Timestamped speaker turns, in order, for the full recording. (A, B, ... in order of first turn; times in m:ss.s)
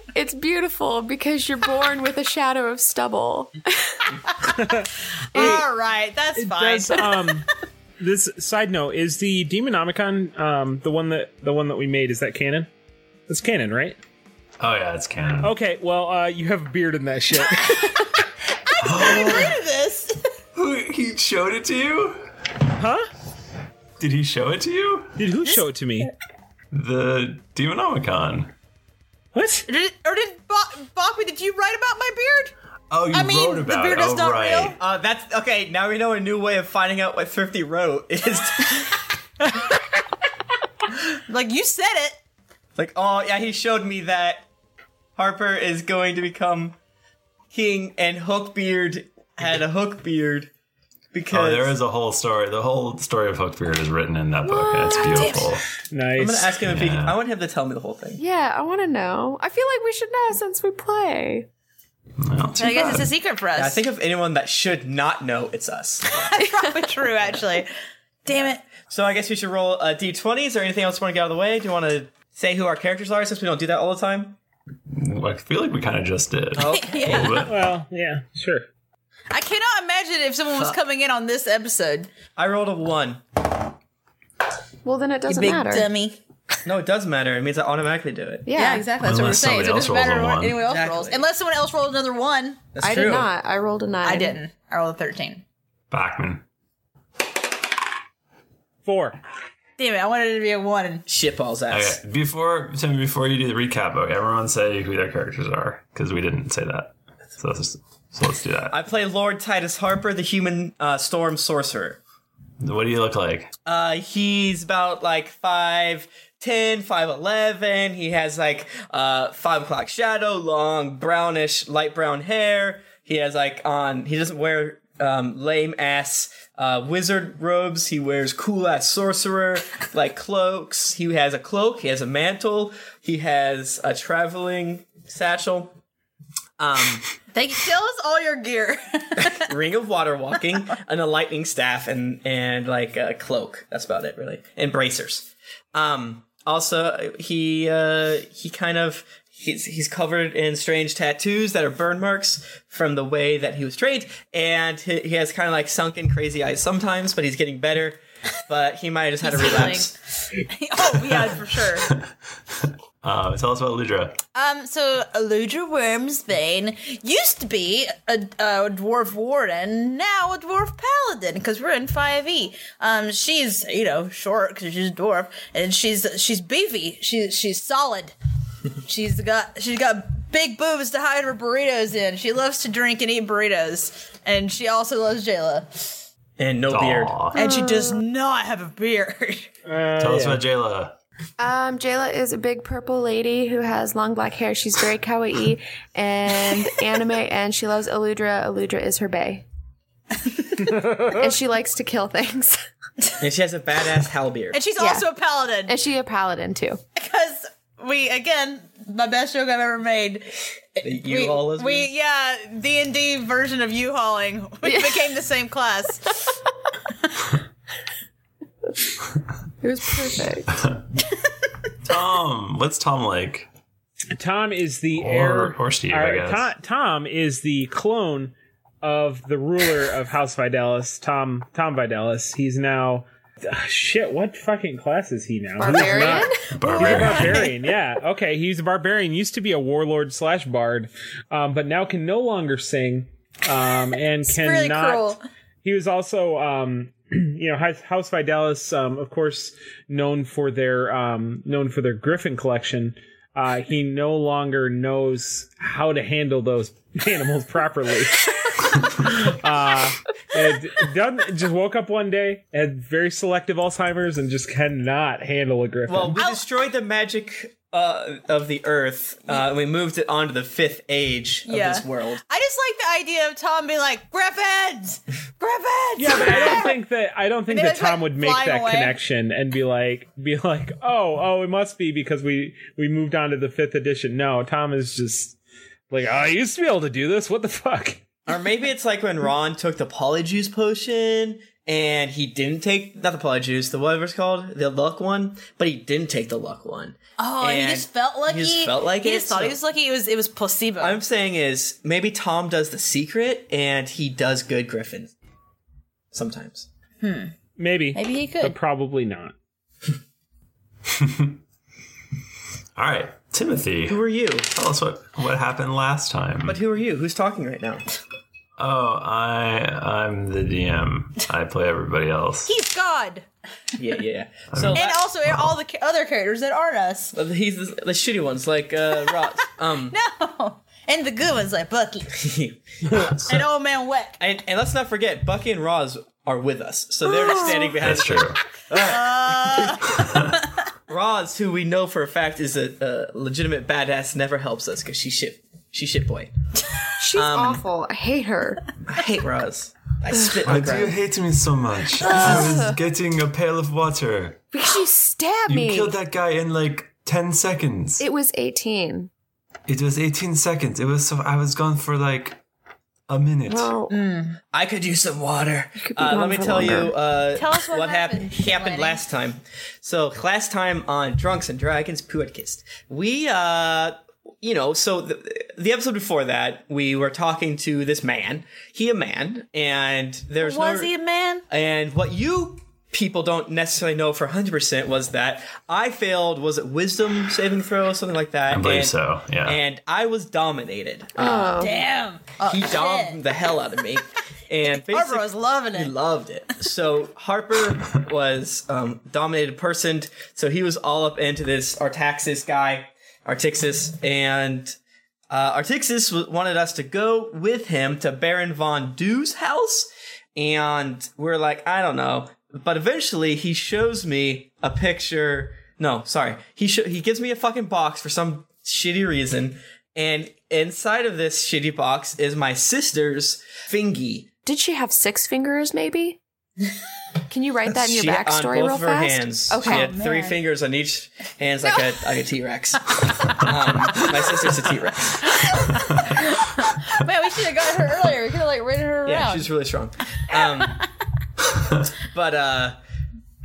0:00.1-0:04.2 A
0:04.6-0:05.6 B
0:05.3-0:07.3 C
0:05.3-0:05.6 A
0:06.4-0:07.4 B
0:08.0-0:12.7 B
0:13.3-0:14.0 B
0:14.6-0:15.5 D
0:15.4-0:17.9 B
0:17.7-0:18.0 C
0:18.6-0:20.2 C
0:18.8-0:19.6 D
0:20.5-0:22.2 D
0:22.8-0:23.1 B
0:24.0-0:25.2 D
0:25.2-0:26.1 B
0:26.7-0:28.5 D
0:29.3-0:29.6 B
0:29.7-0:32.5 C
0:32.9-0:34.8 D
0:33.1-0:34.8 C
0:34.8-0:39.0 E
0:41.2-0:42.2 C
0:42.8-0:44.5 E
0:45.2-0:46.8 E
0:47.5-0:50.5 E
0:51.1-0:51.8 E
0:51.3-0:55.6 D
0:54.5-0:55.3 A
0:54.9-0:55.5 C
0:55.9-0:56.5 B
0:56.2-0:58.2 E
0:56.6-0:57.2 D
0:58.2-1:01.5 A
1:02.2-1:03.1 D
1:02.6-1:03.8 C
1:03.6-1:06.1 E
1:06.1-1:07.7 C
1:06.6-1:06.9 A
1:08.2-1:08.6 C
1:08.9-1:14.4 E
1:14.9-1:17.6 D
1:16.6-1:17.4 E
1:16.7-1:17.4 C
1:17.4-1:18.6 B
1:19.3-1:22.1 C
1:22.4-1:23.4 E
1:24.8-1:25.9 A
1:25.3-1:26.2 C
1:26.6-1:28.5 E
1:28.4-1:28.9 A
1:28.5-1:32.6 C
1:29.0-1:30.6 D
1:30.6-1:31.2 E
1:32.8-1:33.3 E
1:32.8-1:34.4 A
1:34.0-1:35.4 C
1:35.9-1:36.4 D
1:38.8-1:39.2 B
1:39.8-1:41.0 C
1:41.1-1:42.0 E
1:41.7-1:48.8 D
1:48.7-1:52.0 E
1:52.6-1:53.5 D
1:53.6-2:15.8 E
2:16.6-2:17.1 E
2:17.3-2:19.4 C
2:19.2-2:39.9 E
2:39.2-2:41.9 C
2:42.6-2:44.2 D
2:44.3-2:58.1 C
2:58.8-3:06.0 C
3:06.4-3:07.2 E
3:06.7-3:07.4 D
3:07.3-3:08.0 A
3:07.3-3:09.5 C
3:09.6-3:10.4 B
3:10.0-3:11.0 D
3:11.4-3:19.4 A
3:20.6-3:22.6 A
3:23.2-3:24.6 E
3:24.5-3:25.8 C
3:24.8-3:25.1 A
3:25.6-3:26.8 A
3:27.0-3:36.1 C
3:30.8-3:31.9 E
3:34.6-3:35.0 A
3:39.6-3:40.5 A
3:41.8-3:43.5 D
3:44.2-4:18.3 B
3:45.0-3:46.5 D
3:55.6-3:56.4 A
3:56.6-3:57.5 D
3:56.7-3:57.5 C
4:04.2-4:05.2 C
4:18.9-4:26.2 B
4:25.9-4:32.2 E
4:26.2-4:26.4 C
4:31.4-4:36.8 C
4:36.0-4:45.4 B
4:37.5-4:39.0 C
4:45.9-4:48.0 B
4:48.3-4:59.6 E
4:57.2-5:01.0 C
5:00.8-5:05.1 E
5:06.1-5:06.7 E
5:07.0-5:07.3 C
5:07.6-5:09.3 B
5:07.9-5:08.5 C
5:11.0-5:11.4 D
5:12.8-5:16.6 D
5:13.9-5:14.5 E
5:16.4-5:17.8 E
5:18.6-5:22.5 D
5:22.4-5:23.2 C
5:23.8-5:25.0 E
5:24.5-5:25.5 D
5:24.7-5:27.2 C
5:27.1-5:30.0 E
5:29.9-5:32.1 C
5:32.2-5:33.4 E
5:33.2-5:34.2 C
5:34.2-5:40.0 E
5:37.0-5:37.8 A
5:37.8-5:38.4 D
5:38.7-5:40.4 C
5:40.9-5:46.3 E
5:47.0-5:48.7 A
5:47.1-5:47.6 E
5:48.8-5:50.9 E
5:50.4-5:54.4 D
5:52.0-5:52.8 A
5:52.0-5:52.5 C
5:54.5-5:56.0 A
5:55.5-5:58.0 D
5:58.0-5:59.1 A
5:59.7-6:02.4 D
6:03.1-6:03.7 D
6:03.5-6:03.9 A
6:03.9-6:04.4 C
6:04.5-6:20.9 E
6:05.8-6:07.0 A
6:07.3-6:09.0 C
6:20.4-6:21.4 C
6:21.5-6:31.6 E
6:28.5-6:29.6 D
6:31.2-6:31.8 A
6:31.6-6:33.2 C
6:32.4-6:44.8 E
6:34.7-6:35.9 C
6:45.3-7:04.3 E
7:04.4-7:06.2 A
7:07.3-7:10.0 A
7:07.7-7:15.4 E
7:09.6-7:10.4 C
7:15.6-7:19.5 C
7:19.0-7:20.8 E
7:20.3-7:20.8 C
7:22.0-7:22.8 E